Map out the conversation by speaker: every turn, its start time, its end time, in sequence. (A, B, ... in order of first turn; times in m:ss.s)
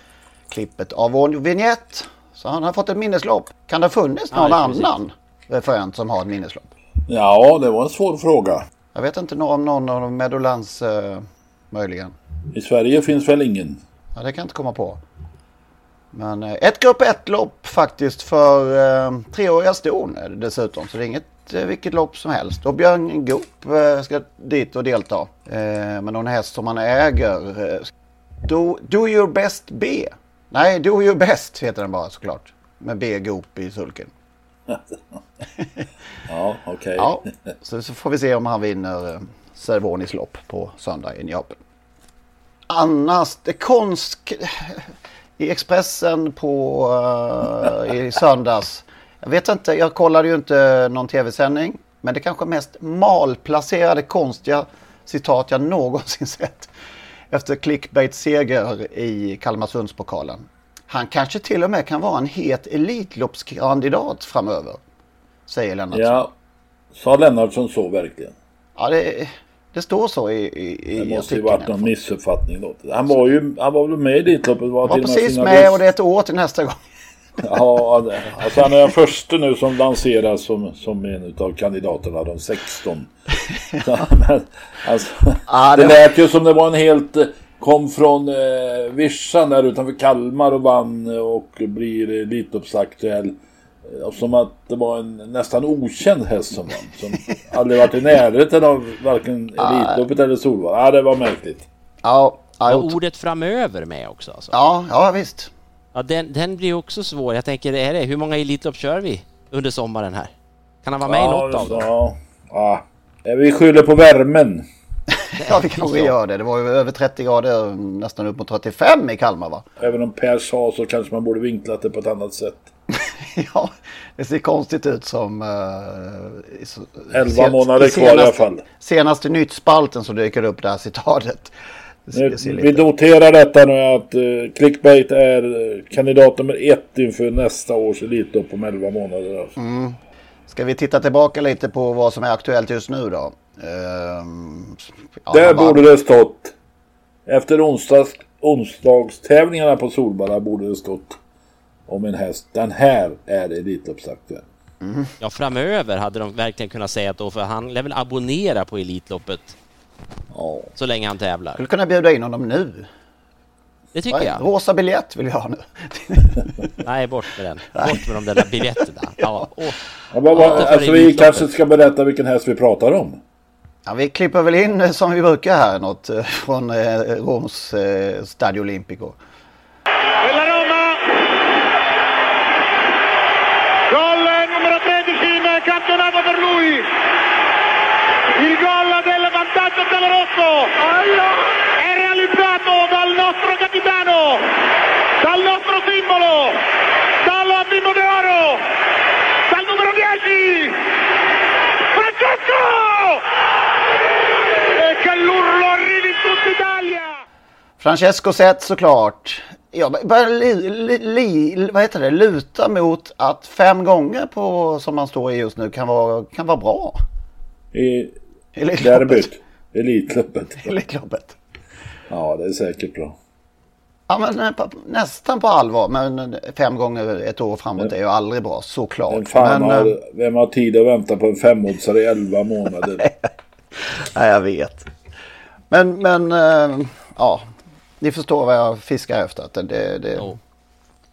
0:00.5-0:06.7 A
0:04.3-0:04.9 B
0:07.1-0:08.6 C
0:08.9-0:12.1 A
0:12.5-0:13.8 C
0:14.1-0:15.0 A
0:16.1-0:27.9 A
0:28.4-0:34.1 A
0:36.3-0:37.2 C
0:37.0-0:41.6 A
0:42.7-0:44.8 A
0:45.4-0:56.7 A
0:57.3-1:04.8 A
1:05.5-1:06.2 A
1:05.9-1:06.3 C
1:06.9-1:08.3 C
1:08.8-1:11.9 A
1:11.0-1:15.8 C
1:14.8-1:16.8 A
1:17.4-1:23.1 C
1:23.8-1:33.3 C
1:25.5-1:26.0 A
1:33.8-1:41.6 C
1:39.6-1:40.0 A
1:42.0-1:43.0 A
1:42.6-1:44.5 B
1:44.5-1:45.5 A
1:45.9-1:50.3 B
1:50.8-1:51.9 B
1:51.0-1:54.6 C
1:55.4-1:59.6 A
1:55.4-1:56.1 B
1:59.8-2:02.7 C
2:02.9-2:11.5 A
2:07.1-2:08.6 C
2:12.1-2:12.8 A
2:12.1-2:19.5 C
2:19.6-2:25.8 A
2:25.3-2:26.5 C
2:27.2-2:31.2 C
2:31.9-2:34.4 C
2:34.8-2:35.1 A
2:35.2-2:39.6 B
2:40.3-2:40.7 C
2:40.8-2:41.6 B
2:41.6-2:42.9 A
2:43.9-2:44.4 B
2:44.1-2:46.5 A
2:46.8-2:49.8 B
2:47.7-2:48.4 A
2:50.1-2:53.2 C
2:50.4-2:50.7 A
2:50.4-2:51.4 B
2:53.8-2:59.2 A
3:00.2-3:01.0 D
3:03.9-3:06.9 D
3:08.4-3:14.4 D
3:15.2-3:16.6 D
3:17.2-3:18.6 D
3:19.5-3:20.8 D
3:21.8-3:23.2 D
3:24.7-3:27.2 D
3:27.8-3:37.0 A
3:37.7-3:38.1 C
3:38.6-3:39.3 A
3:38.8-3:40.7 C
3:40.6-3:41.4 A
3:42.1-3:43.2 C
3:44.1-3:50.0 A
3:49.1-3:53.1 C
3:53.7-3:54.9 A
3:55.7-3:57.5 A
3:58.0-4:00.4 A